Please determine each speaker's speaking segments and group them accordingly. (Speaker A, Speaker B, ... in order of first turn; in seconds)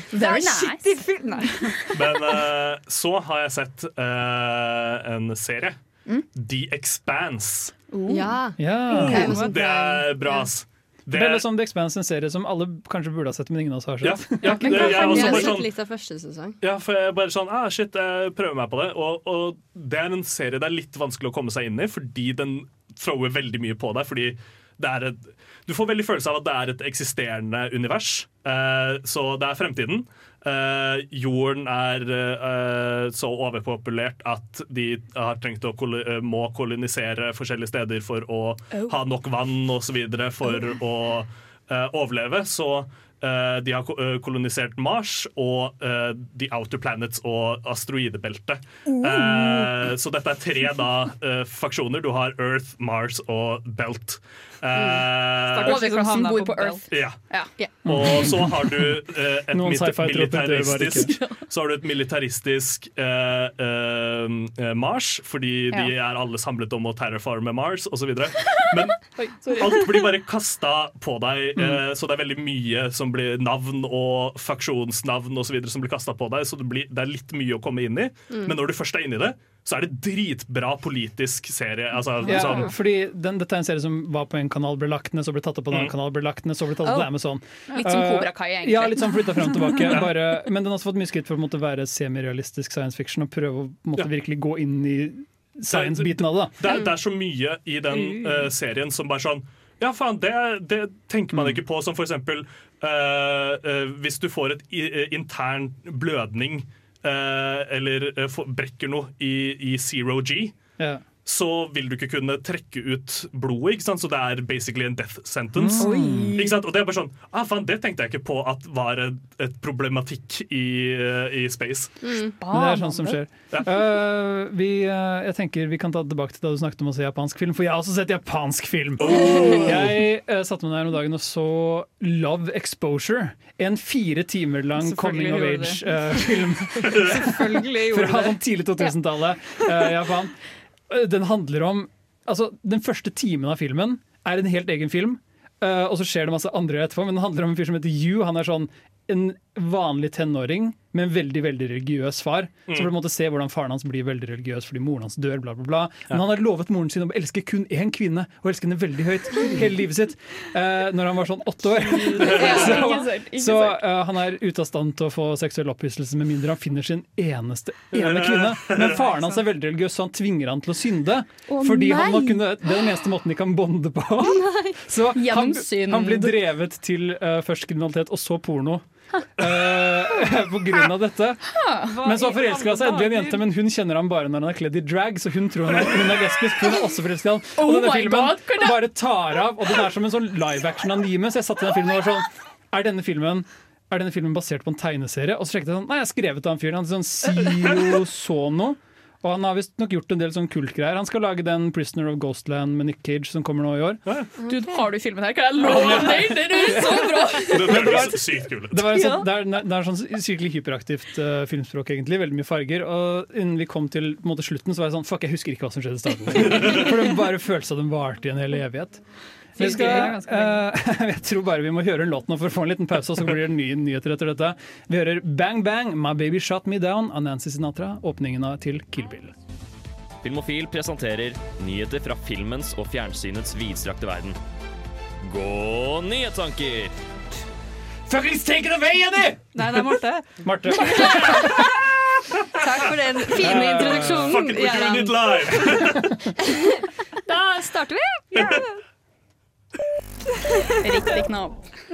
Speaker A: 0.1-1.0, 7.9-8.5, 9.1-9.5, 14.6-15.6, 48.9-49.8, 55.6-57.7, 69.2-70.1, 87.7-89.8, 122.4-123.2, 162.1-163.8, 171.5-172.4, 175.1-176.4, 181.6-181.9, 187.6-188.8, 204.5-208.0, 250.8-251.7
Speaker B: 0.1-1.9, 9.0-10.0, 55.4-56.8, 97.9-98.5, 134.8-135.9, 136.8-138.4, 162.2-162.8, 169.0-169.4, 181.9-183.4, 208.9-209.2, 219.6-220.6, 239.6-241.4, 247.3-247.6
Speaker C: 1.9-5.8, 6.3-7.7, 8.9-11.4, 14.0-15.7, 16.6-55.8, 56.9-57.2, 57.9-82.7, 95.7-110.5, 111.2-121.9, 129.0-130.0, 162.2-162.7, 167.9-169.0, 205.6-206.3, 207.5-209.1, 216.5-216.8, 243.3-246.2, 248.3-248.6
Speaker D: 8.1-9.9, 14.6-16.6, 54.8-55.0, 115.8-116.4, 122.0-122.3, 174.2-174.8, 204.4-204.8, 242.6-245.7, 248.3-248.7
Speaker E: 8.6-9.3, 11.1-14.7, 57.9-59.0, 59.5-61.2, 71.6-71.8, 82.2-96.7, 101.3-101.6, 110.8-111.0, 115.5-116.5, 122.5-178.8, 179.4-204.0, 205.6-219.0, 219.6-229.3, 238.1-239.6, 240.4-241.8, 243.4-244.4
Speaker F: 230.2-234.4, 235.2-236.9